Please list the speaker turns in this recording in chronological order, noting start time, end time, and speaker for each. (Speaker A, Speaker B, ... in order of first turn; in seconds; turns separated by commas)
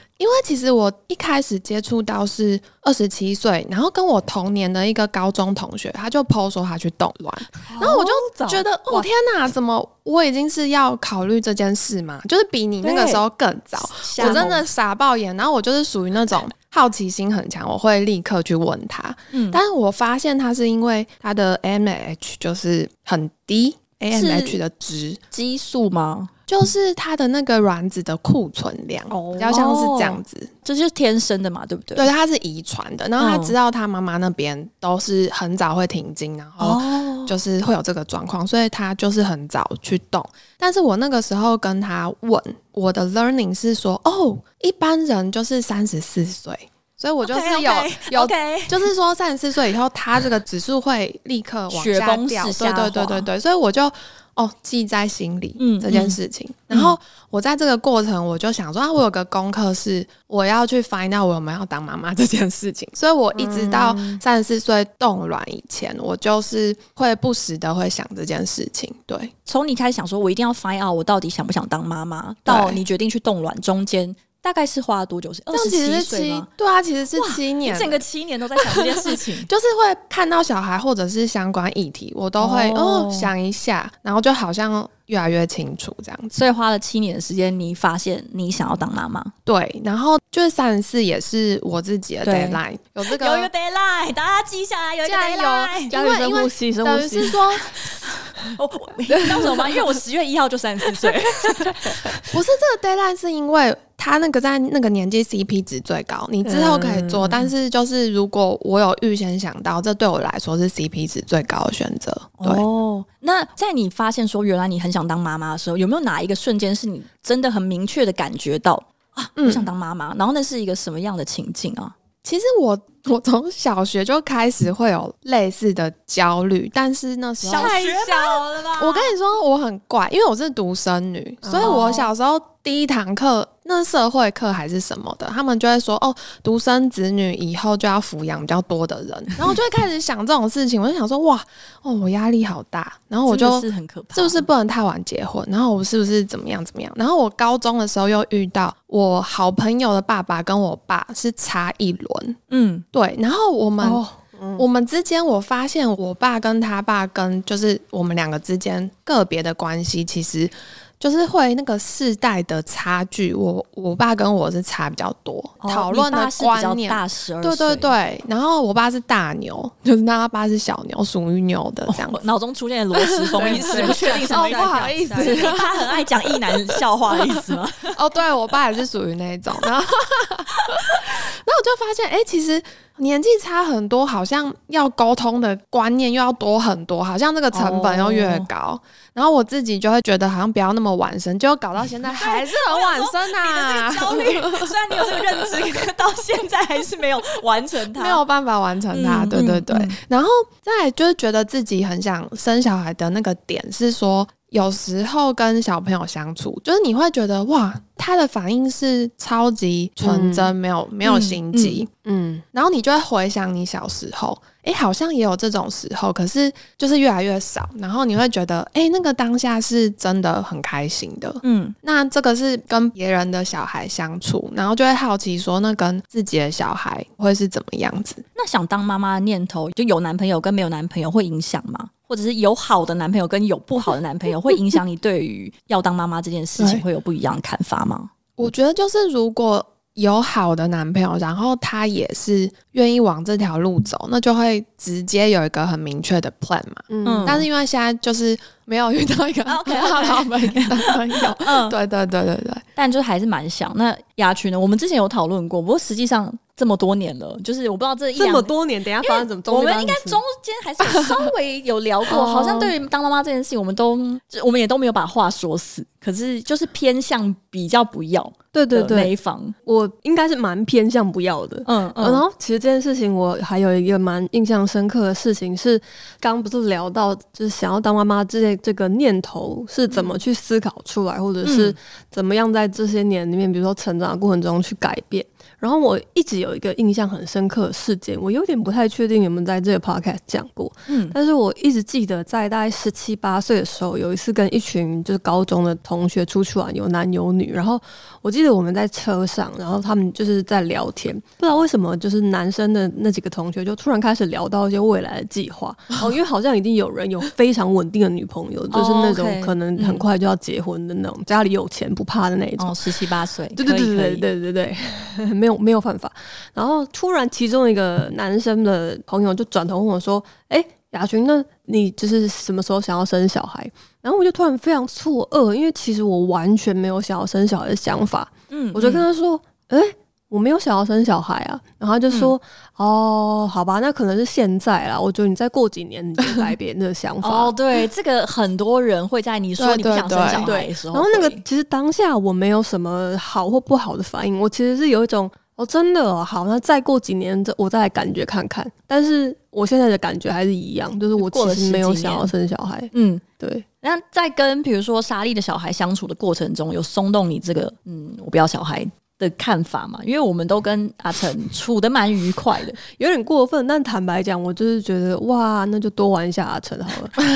Speaker A: 0.2-25.2, Speaker B: 7.7-9.1, Speaker C: 12.8-13.2, Speaker C: 13.8-14.6, Speaker B: 14.1-14.6, Speaker C: 19.3-19.6, Speaker C: 24.1-24.6, Speaker C: 25.3-26.3, Speaker A: 26.5-30.5, Speaker C: 29.1-32.1, Speaker A: 31.9-69.3, Speaker C: 33.2-33.5, Speaker C: 36.6-37.3, Speaker C: 47.2-48.9, Speaker C: 51.7-53.3, Speaker C: 55.6-56.2, Speaker C: 63.3-64.2, Speaker C: 69.5-76.5, Speaker A: 72.5-72.8, Speaker A: 75.5-78.0, Speaker C: 77.1-79.5, Speaker A: 78.6-86.4, Speaker C: 82.4-83.3, Speaker C: 86.3-89.3, Speaker A: 89.5-93.5, Speaker C: 92.2-96.0, Speaker A: 95.0-97.9, Speaker B: 95.9-97.4, Speaker C: 97.5-102.3, Speaker A: 102.3-112.6, Speaker B: 106.4-107.5, Speaker C: 112.4-121.9, Speaker A: 119.4-119.7, Speaker A: 122.2-152.4, Speaker C: 127.4-129.1, Speaker B: 127.5-127.8, Speaker B: 131.4-132.1, Speaker C: 131.6-132.0, Speaker C: 143.3-144.4, Speaker C: 152.5-152.8, Speaker A: 152.9-154.0, Speaker B: 153.8-154.6, Speaker A: 154.6-172.2, Speaker C: 165.6-167.9, Speaker C: 171.9-178.0, Speaker A: 172.9-195.8, Speaker B: 173.3-175.6, Speaker C: 187.5-188.5, Speaker C: 192.1-198.2, Speaker A: 197.9-211.9, Speaker C: 198.9-200.0, Speaker B: 210.0-210.5, Speaker C: 211.0-211.8, Speaker B: 212.0-212.4, Speaker A: 212.5-228.2, Speaker C: 221.4-221.7, Speaker C: 228.3-238.1, Speaker A: 236.6-236.8, Speaker A: 238.4-252.6, Speaker B: 246.9-247.5, Speaker C: 247.0-247.4, Speaker C: 249.4-251.8, Speaker C: 252.8-269.6, Speaker B: 258.1-260.2, Speaker B: 262.1-262.7, Speaker B: 268.5-269.1, Speaker B: 269.6-312.9, Speaker C: 271.6-272.2, Speaker C: 281.4-281.8, Speaker C: 290.9-291.1, Speaker C: 308.7-310.0, Speaker C: 312.6-314.2, Speaker B: 313.6-337.5, Speaker C: 328.5-329.1, Speaker C: 337.2-341.4, Speaker A: 339.6-340.5, Speaker B: 340.3-353.6, Speaker C: 351.2-352.3, Speaker C: 352.9-353.2, Speaker C: 353.8-362.8, Speaker B: 362.9-367.2